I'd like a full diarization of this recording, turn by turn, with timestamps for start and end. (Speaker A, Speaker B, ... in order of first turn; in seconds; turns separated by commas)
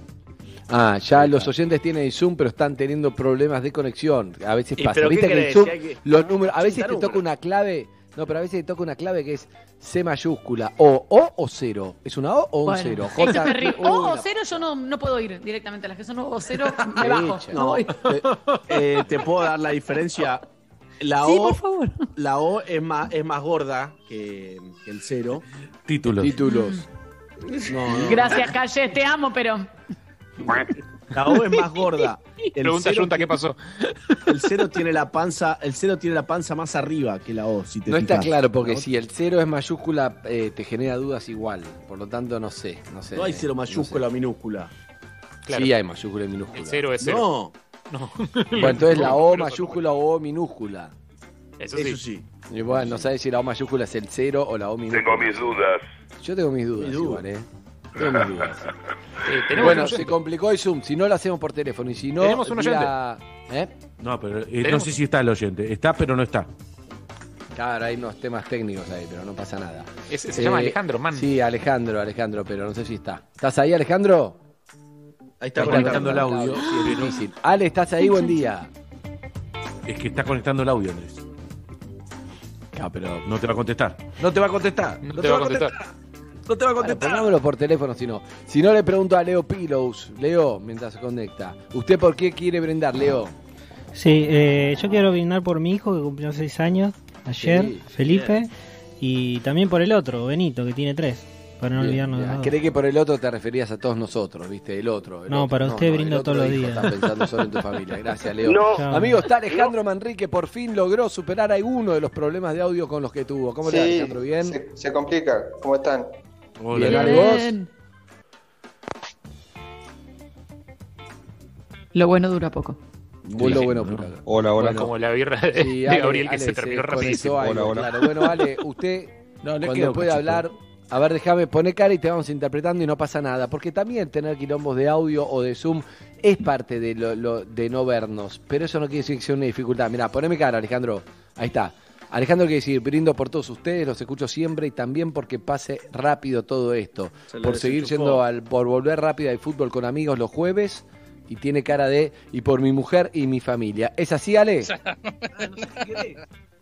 Speaker A: 0.7-14.3, Speaker B: 1.1-1.5, Speaker C: 4.8-6.0, Speaker C: 6.5-7.2, Speaker D: 12.6-17.9, Speaker A: 16.9-17.6, Speaker C: 17.6-20.4, Speaker B: 18.2-18.6, Speaker C: 21.0-21.6, Speaker D: 21.2-22.1, Speaker C: 22.2-25.4, Speaker B: 25.9-26.4, Speaker A: 26.2-26.8, Speaker D: 26.5-26.8, Speaker C: 27.7-28.4, Speaker D: 28.0-29.7, Speaker C: 31.1-33.4, Speaker D: 31.5-31.8, Speaker E: 32.6-33.6, Speaker C: 34.3-38.8, Speaker A: 37.9-44.0, Speaker C: 43.1-44.7, Speaker E: 45.5-45.7, Speaker A: 45.5-46.9, Speaker E: 46.5-47.3, Speaker C: 47.0-47.5, Speaker E: 47.9-49.8, Speaker A: 48.5-50.9, Speaker E: 51.6-52.0, Speaker C: 51.7-52.2, Speaker A: 52.5-58.7, Speaker C: 56.8-57.2, Speaker E: 59.2-60.2, Speaker A: 59.5-63.7, Speaker E: 62.2-62.9, Speaker B: 64.0-66.5, Speaker E: 64.6-64.9, Speaker A: 67.5-74.4, Speaker E: 70.1-71.3, Speaker C: 75.4-77.0, Speaker B: 75.5-77.2, Speaker A: 75.5-78.7, Speaker B: 79.9-81.2, Speaker A: 82.7-83.2, Speaker B: 83.2-85.9, Speaker E: 85.0-85.7, Speaker B: 86.5-87.3, Speaker A: 86.8-93.3, Speaker F: 94.0-98.5, Speaker A: 97.3-98.1, Speaker C: 98.1-98.3, Speaker F: 99.0-102.5, Speaker A: 101.7-114.5, Speaker F: 105.3-106.9, Speaker F: 108.7-109.2, Speaker G: 113.6-116.1, Speaker B: 116.6-117.4, Speaker A: 116.7-117.5, Speaker D: 116.8-117.7, Speaker D: 121.9-122.8, Speaker A: 123.2-124.9, Speaker B: 123.4-124.1, Speaker G: 124.3-124.8, Speaker E: 124.6-127.5, Speaker A: 125.5-154.7, Speaker G: 127.3-127.9, Speaker B: 129.4-130.5, Speaker C: 147.3-148.2, Speaker C: 155.5-156.1